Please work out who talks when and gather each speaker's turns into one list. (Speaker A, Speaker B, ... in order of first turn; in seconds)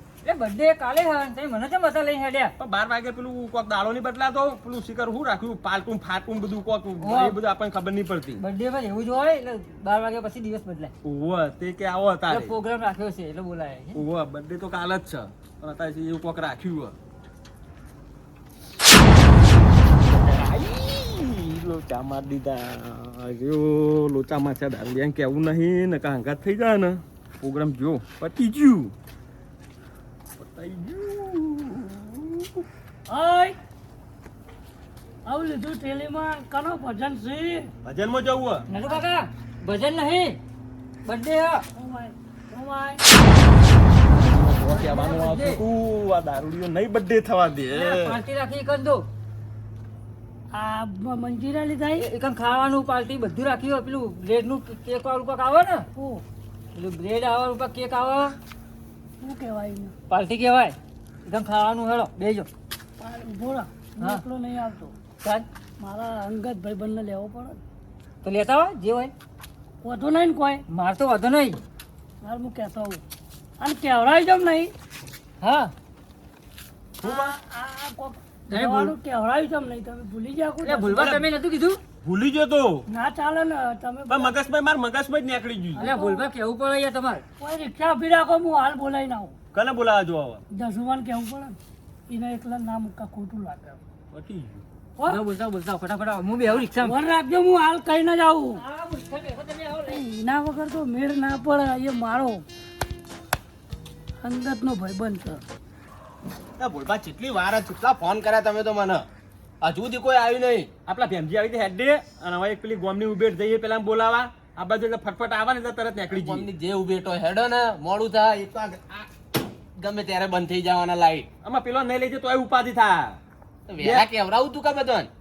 Speaker A: 0.2-2.5, 7.0-7.4, 8.4-10.9, 12.3-14.0, 38.7-40.4, 41.0-41.6, 44.6-45.6, 47.7-49.0, 52.0-55.9, 56.7-58.4, 60.1-62.5, 68.2-69.1, 70.7-71.6, 75.4-75.7, 78.5-78.9, 80.6-81.8, 85.8-87.2, 95.0-97.0, 98.5-100.0
Speaker B: 2.6-8.4, 11.0-12.6, 13.9-16.9, 20.0-28.9, 30.4-32.6, 37.8-38.6, 44.1-48.2, 77.0-77.3, 80.9-81.3, 82.0-82.8, 84.1-85.9, 89.5-90.4, 94.1-94.7, 110.8-116.5, 121.4-123.2, 123.8-124.1
Speaker C: 33.1-33.5, 35.2-37.7, 41.7-43.0, 50.5-52.1, 55.9-56.2, 59.2-59.9, 63.0-65.0, 65.8-67.6, 69.8-70.6, 72.2-73.0, 73.6-74.7, 77.0-81.2, 82.9-84.3, 85.8-86.3, 87.4-89.3, 90.5-91.6, 92.1-93.8, 95.0-95.2, 96.7-98.6, 99.9-102.5, 104.2-105.4
Speaker D: 106.6-109.0, 109.6-110.7, 116.1-119.1, 119.8-121.3, 123.7-125.1